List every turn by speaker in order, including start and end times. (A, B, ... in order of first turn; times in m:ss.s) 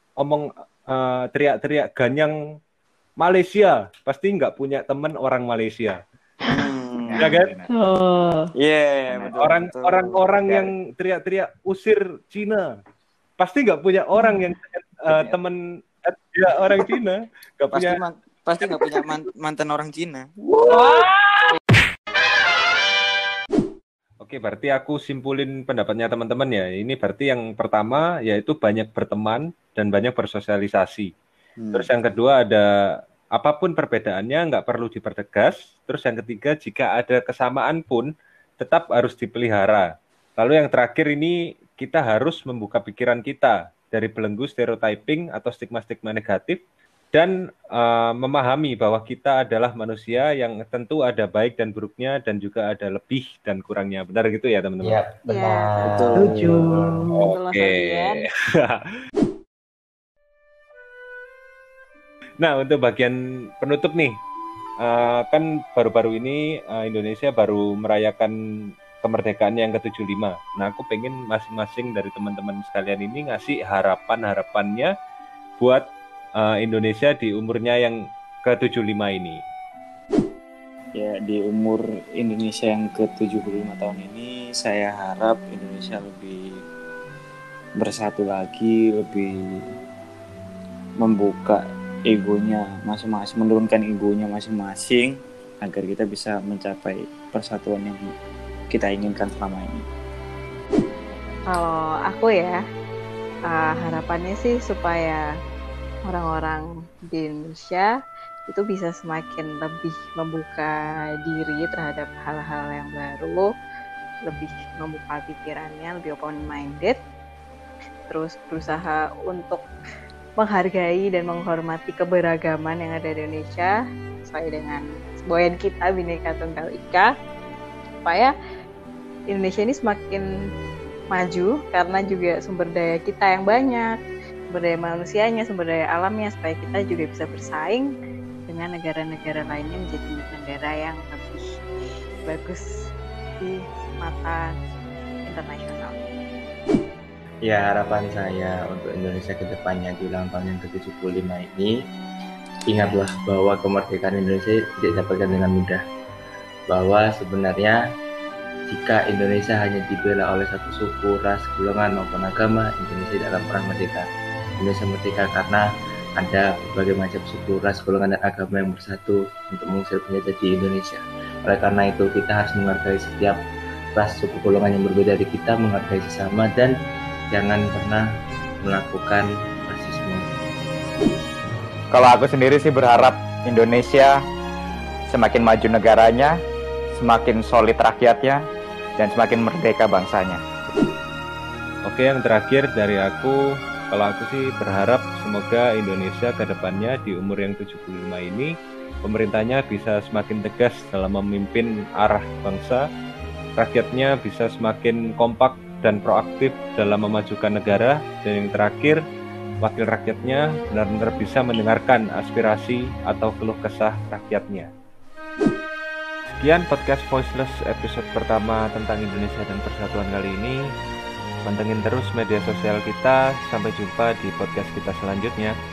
0:00.2-0:02.3 A
0:03.2-0:06.0 A
0:06.5-0:07.3 B
0:07.1-0:07.7 C
0:07.2-0:07.5 A
0:07.7-0:08.5 D
0:08.6-0:10.7 B
0:09.1-0:09.4 C
0:09.4-0:12.7 A
0:13.4-0:18.0 A
0:15.1-0:15.4 C
0:17.7-0:20.3 B
0:20.6-0:21.0 A
0:20.6-0:21.5 D
0:24.2-0:31.1 A
0:31.6-0:31.8 B
0:31.7-0:32.7 A
0:33.3-0:46.6 A
0:47.1-0:55.0 A
0:54.8-0:56.5 E
0:55.3-0:58.2 D
0:55.8-0:56.6 B
0:56.2-0:58.8 A
1:02.4-1:04.2 A
1:04.8-1:08.3 A
1:09.0-1:14.9 A
1:15.6-1:19.4 A
1:21.0-1:26.6 B
1:27.8-1:29.6 B
1:31.0-1:38.1 B
1:38.7-1:39.8 B
1:41.5-1:42.6 D
1:43.5-1:45.2 D
1:46.1-1:47.9 D
1:48.5-1:53.5 D
1:54.2-1:57.0 D
1:58.1-1:59.6 D
2:00.4-2:07.1 D
2:08.0-2:08.3 D
2:09.3-2:10.2 D
2:11.1-2:13.9 D
2:14.5-2:17.9 D
2:18.5-2:21.4 D
2:22.3-2:22.9 D
2:23.4-2:24.6 D
2:25.3-2:26.1 D
2:27.4-2:31.7 E
2:32.7-2:35.8 E
2:36.7-2:37.8 E
2:38.7-2:44.0 E
2:44.6-2:45.6 E
2:46.2-2:53.4 E
2:54.0-2:56.7 E
2:57.3-2:58.0 E
2:58.6-3:00.3 E
3:01.9-3:04.2 C
3:05.1-3:06.3 C
3:07.0-3:08.4 C
3:09.0-3:10.4 C
3:11.8-3:13.4 A
3:13.9-3:22.9 A
3:23.6-3:29.0 A
3:29.6-3:34.7 A
3:36.4-3:40.6 A
3:41.4-3:45.5 A